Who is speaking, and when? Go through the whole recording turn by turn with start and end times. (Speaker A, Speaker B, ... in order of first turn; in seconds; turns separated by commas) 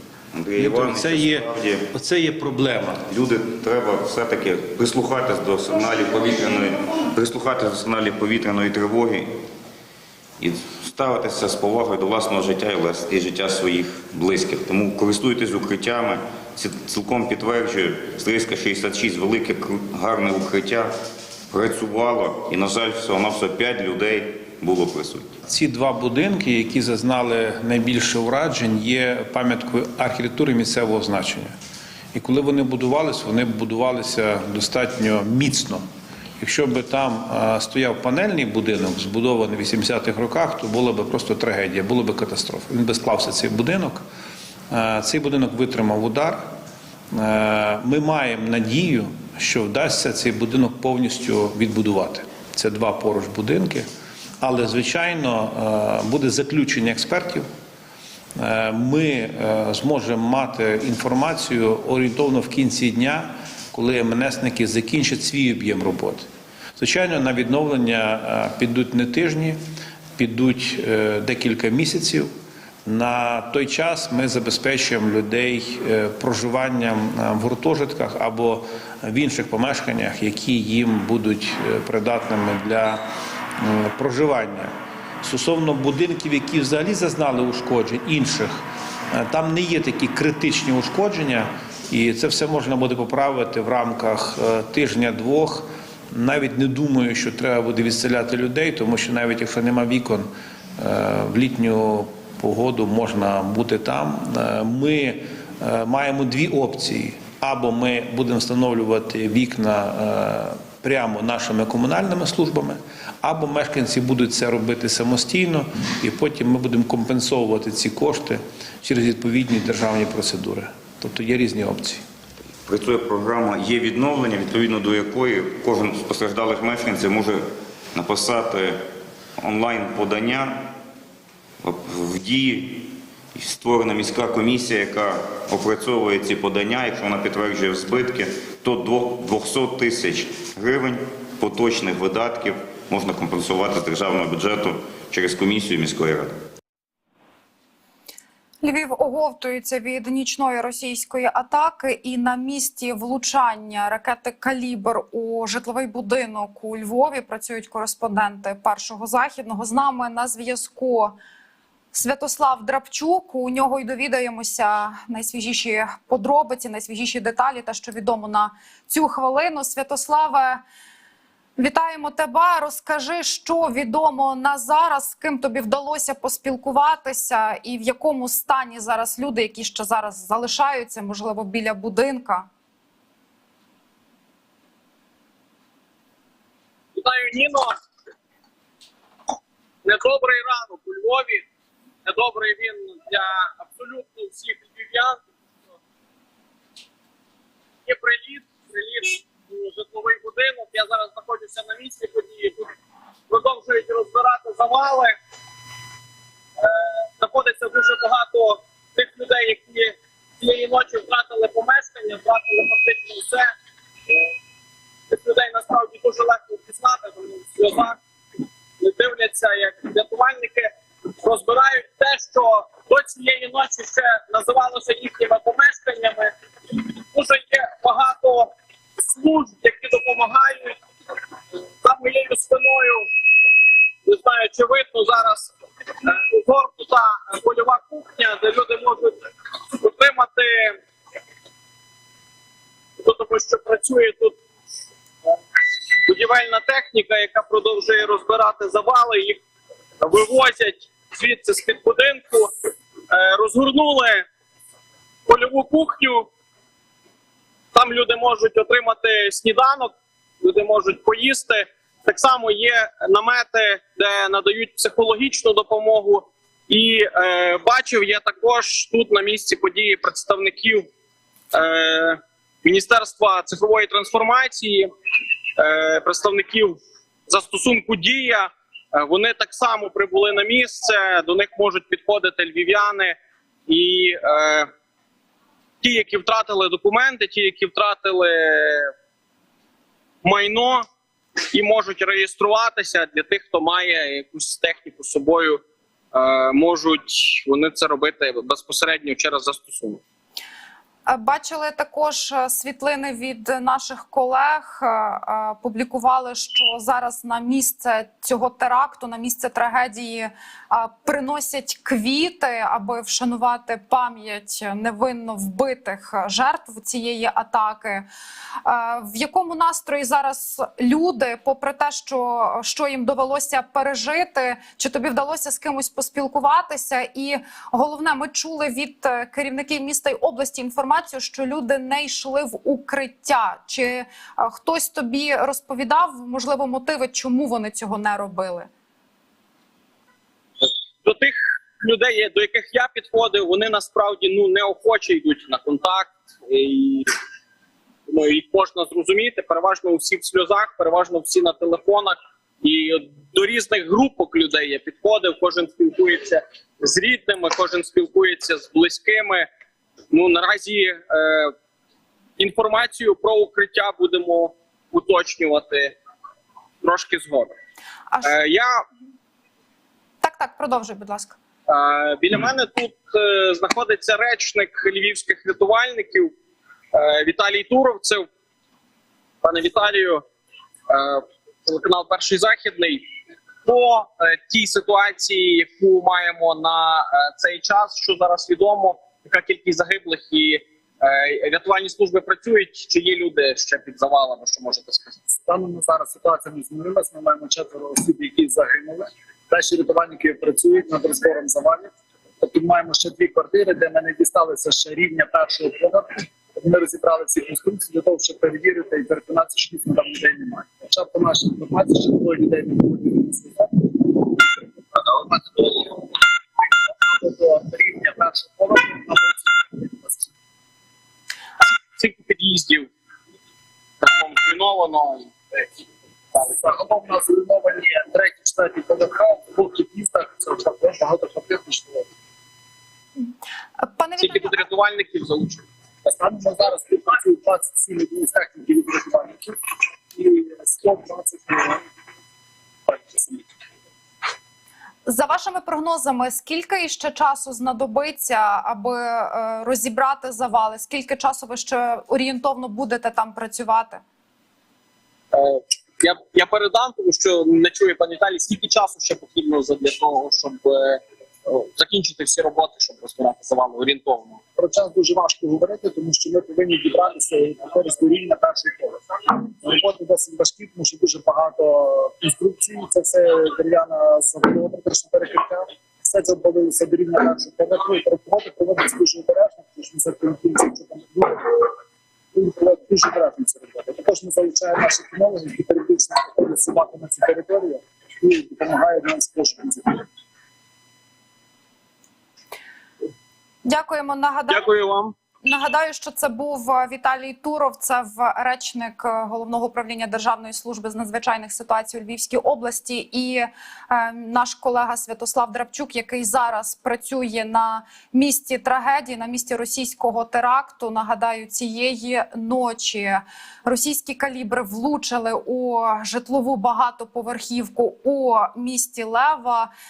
Speaker A: 0.3-1.8, Speaker B: 0.6-3.0, Speaker A: 3.0-9.4, Speaker A: 10.4-20.9, Speaker A: 21.5-25.3, Speaker B: 25.4-31.5, Speaker B: 32.1-35.8, Speaker B: 36.4-44.0, Speaker B: 44.7-46.5, Speaker B: 47.1-53.9, Speaker B: 54.4-57.5, Speaker B: 58.4-69.6, Speaker B: 70.2-72.3, Speaker B: 72.9-83.0, Speaker B: 83.6-88.6, Speaker B: 89.1-122.0, Speaker A: 122.7-128.8, Speaker A: 129.4-130.7, Speaker A: 131.6-146.3, Speaker C: 148.6-161.2, Speaker C: 161.9-170.6, Speaker C: 171.6-182.5, Speaker D: 186.9-187.7, Speaker D: 189.8-191.5, Speaker D: 192.1-195.2, Speaker D: 197.9-202.7, Speaker D: 203.3-205.2, Speaker D: 206.6-213.5, Speaker D: 215.1-218.0, Speaker D: 218.8-230.8, Speaker D: 231.8-233.1, Speaker D: 234.1-239.2, Speaker D: 239.7-240.8, Speaker D: 243.0-244.4, Speaker D: 246.1-249.4, Speaker D: 250.0-252.5, Speaker D: 253.1-254.2, Speaker D: 255.3-256.3, Speaker D: 257.8-270.9, Speaker D: 271.5-274.9, Speaker D: 275.6-283.2, Speaker D: 283.7-284.7, Speaker D: 285.8-288.9, Speaker D: 290.2-290.9, Speaker D: 291.5-295.6, Speaker D: 296.1-300.0, Speaker C: 301.1-318.1, Speaker C: 318.6-338.7, Speaker D: 340.6-347.1, Speaker D: 348.1-359.5, Speaker D: 360.1-361.5, Speaker D: 362.4-366.0, Speaker D: 366.8-367.5, Speaker D: 368.2-368.8, Speaker C: 370.2-371.4, Speaker D: 371.7-376.3, Speaker D: 376.9-378.3, Speaker D: 379.4-380.2, Speaker D: 380.9-383.0, Speaker D: 383.6-395.2, Speaker E: 395.3-416.1, Speaker E: 416.9-420.3, Speaker D: 422.0-422.9, Speaker D: 424.0-425.6, Speaker E: 426.4-432.1, Speaker C: 433.8-434.5, Speaker D: 434.2-435.6, Speaker E: 436.1-439.6, Speaker E: 440.2-441.8, Speaker E: 442.9-443.5, Speaker C: 445.1-454.0, Speaker D: 455.3-464.4, Speaker E: 464.6-481.7, Speaker E: 482.3-490.1, Speaker C: 493.6-494.7, Speaker D: 494.5-495.1, Speaker C: 495.4-519.7